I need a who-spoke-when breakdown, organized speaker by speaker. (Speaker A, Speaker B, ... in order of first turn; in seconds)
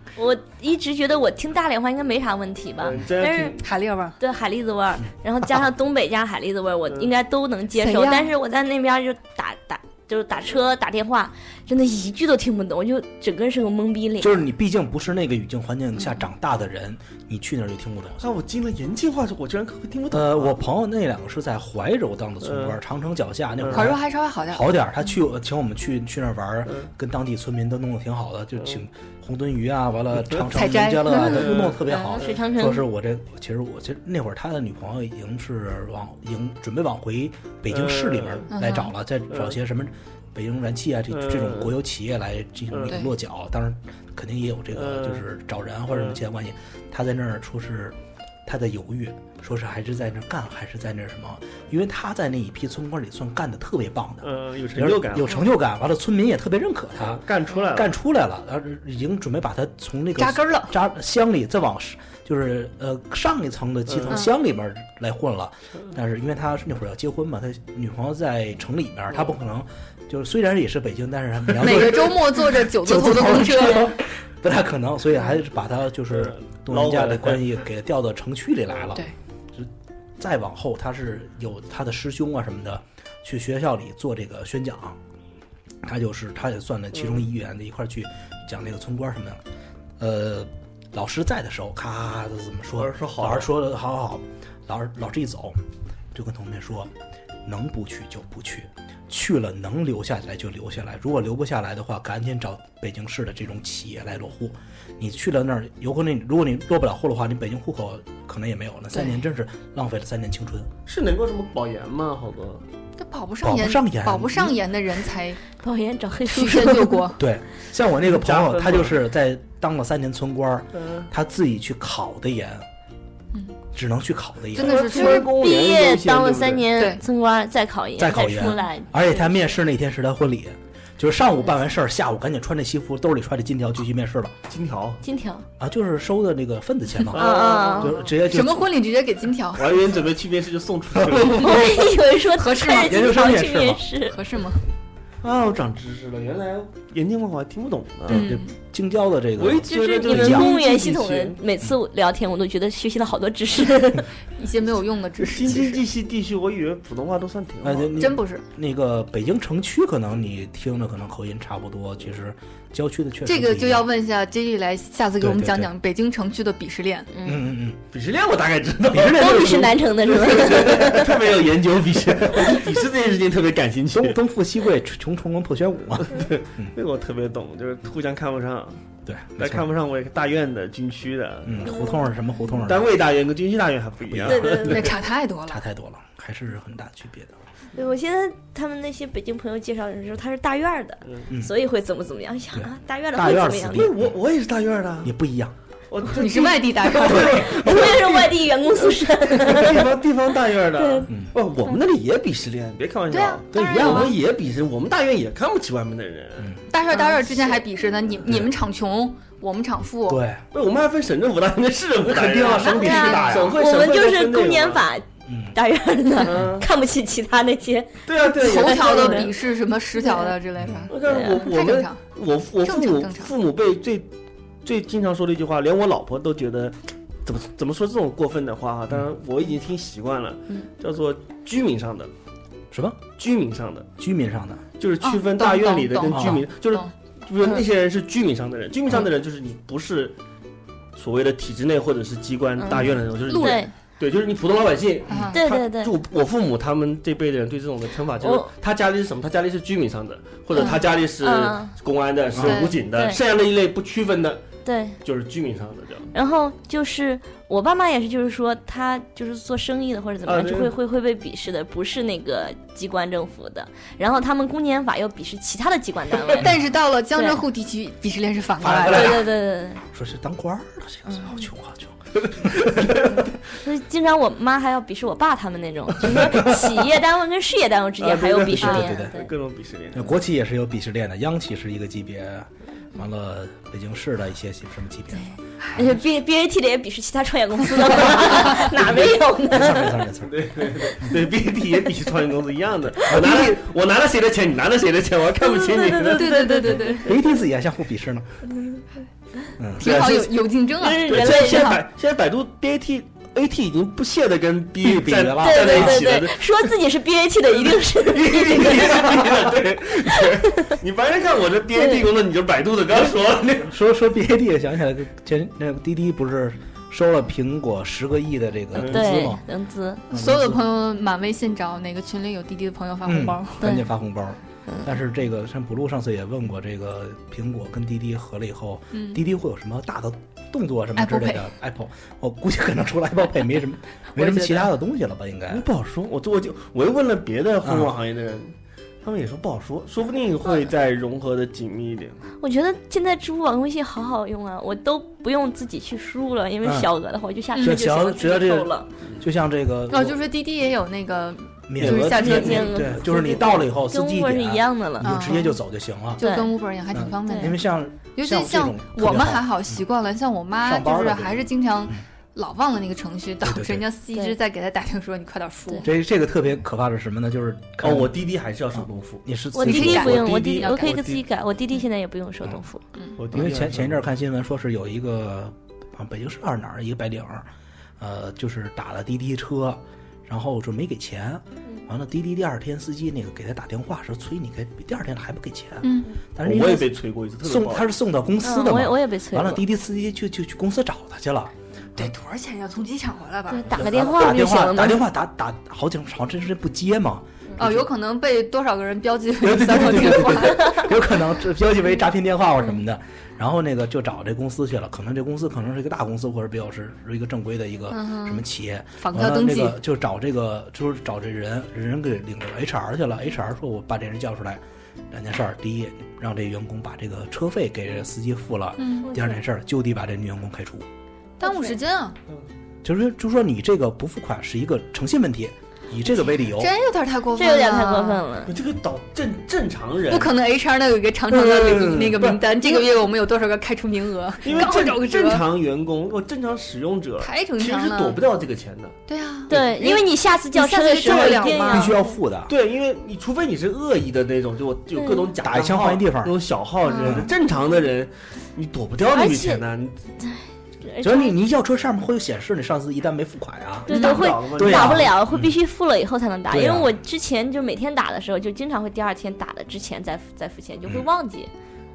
Speaker A: 0.1-3.6, 4.2-14.4, 32.1-32.8, 115.6-117.0, 124.9-129.4, 135.0-135.4, 137.1-137.9, 141.4-144.2, 149.7-154.1, 167.1-167.4, 169.1-171.1, 181.7-182.0, 184.3-184.8, 187.7-193.8, 197.3-199.8, 200.8-201.1, 206.9-207.5, 212.8-219.3, 221.1-221.4, 242.6-243.7, 245.3-245.9, 248.2-248.5, 250.6-251.7, 252.9-253.2, 254.6-255.0, 256.1-266.5, 267.1-267.4, 268.9-269.8, 271.1-271.4, 273.6-279.3, 285.1-290.0, 295.4-297.1, 298.6-298.8, 300.8-301.8, 305.4-309.0, 311.8-312.0, 318.8-320.0, 323.6-323.9, 324.7-324.9, 342.4-348.9, 351.8-355.3, 356.2-356.6, 357.3-357.5, 369.5-372.8, 388.4-389.6, 393.5-395.1, 419.0-419.4, 421.4-421.7, 427.4-428.5, 439.5-442.2, 444.9-445.2, 449.1-449.6, 450.2-451.3, 453.9-461.5
Speaker B: 2.8-3.6, 18.2-20.6, 22.4-22.8, 23.6-23.9, 26.6-26.9, 31.1-31.9, 37.7-38.5, 39.3-39.5, 41.1-41.7, 42.7-43.0, 44.7-45.2, 45.9-46.2, 54.2-55.5, 57.0-57.9, 63.9-64.2, 71.5-71.9, 76.1-77.6, 92.7-93.5, 110.8-112.6, 118.0-119.0, 120.7-121.1, 124.6-126.7, 134.5-135.0, 137.1-138.0, 139.5-141.8, 145.2-148.3, 149.4-151.4, 155.2-158.1, 167.9-174.2, 176.0-178.8, 179.4-181.7, 182.6-184.9, 193.5-195.1, 195.9-206.6, 210.5-214.8, 216.2-216.7, 218.1-219.4, 220.9-224.1, 224.6-232.1, 233.2-233.9, 234.8-240.2, 240.9-254.4, 255.0-256.1, 260.2-260.7, 272.2-273.2, 278.0-280.1, 290.2-296.5, 301.0-306.7, 307.6-313.7, 318.7-319.3, 335.5-342.2, 351.8-352.4, 367.8-369.2, 369.8-371.2, 373.2-374.1, 386.4-387.9, 428.5-430.4, 431.3-432.8, 434.4-438.9, 441.1-441.3, 442.5-449.9, 453.9-455.1
Speaker C: 3.6-4.2, 7.8-8.3, 23.7-24.7, 30.5-32.2, 38.5-38.9, 60.1-60.7, 71.6-74.0, 108.9-109.2, 113.0-115.4, 116.3-117.2, 124.5-125.3, 126.7-127.0, 138.2-140.0, 141.5-143.1, 144.0-144.6, 148.1-148.5, 154.4-155.8, 158.0-158.4, 163.2-167.1, 184.7-185.6, 196.1-197.6, 203.1-204.1, 206.7-210.2, 212.6-213.4, 218.2-222.0, 222.6-223.3, 235.0-236.9, 243.3-243.6, 245.1-245.4, 252.4-252.7, 266.4-269.2, 296.1-297.1, 299.8-301.8, 320.1-323.7, 328.9-329.2, 331.0-331.4, 334.1-334.7, 347.5-347.8, 349.9-352.9, 355.0-355.6, 356.1-365.9, 369.6-371.0, 385.8-386.1, 391.9-393.7, 397.6-400.8, 407.9-408.4, 409.0-409.8, 418.8-419.1, 421.4-422.1, 426.0-428.2, 430.1-435.4, 437.2-438.2, 439.1-442.0, 446.9-447.2, 453.9-454.2
Speaker D: 14.2-18.2, 20.1-85.0, 85.8-89.4, 90.0-95.6, 96.1-96.9, 97.5-110.7, 113.4-114.6, 117.2-122.6, 123.7-124.9, 128.0-134.3, 135.6-138.7, 140.9-141.4, 142.6-143.9, 148.1-150.5, 157.6-163.9, 165.2-165.7, 167.2-167.8, 168.9-169.7, 173.9-176.7, 179.1-179.7, 181.4-182.9, 184.0-184.9, 185.5-187.3, 192.5-194.1, 195.0-195.5, 203.5-204.1, 208.2-208.5, 210.1-210.4, 212.1-213.6, 215.2-215.6, 220.6-220.9, 232.7-233.0, 234.0-234.6, 236.1-236.4, 245.1-245.3, 252.3-252.6, 268.6-269.3, 269.9-273.2, 276.1-276.6, 278.5-279.1, 279.9-285.3, 288.2-291.1, 293.1-293.6, 296.9-298.3, 299.6-300.3, 304.8-306.1, 313.6-319.4, 320.1-320.6, 323.0-335.6, 337.6-337.9, 346.6-346.9, 347.6-350.2, 351.7-356.2, 356.9-359.8, 360.6-362.0, 363.4-363.9, 365.8-368.1, 368.7-370.3, 373.3-377.5, 378.0-392.1, 393.7-397.9, 399.4-420.9, 422.8-426.7, 441.6-442.5, 445.4-446.3, 447.0-447.3, 451.0-455.5, 456.5-456.9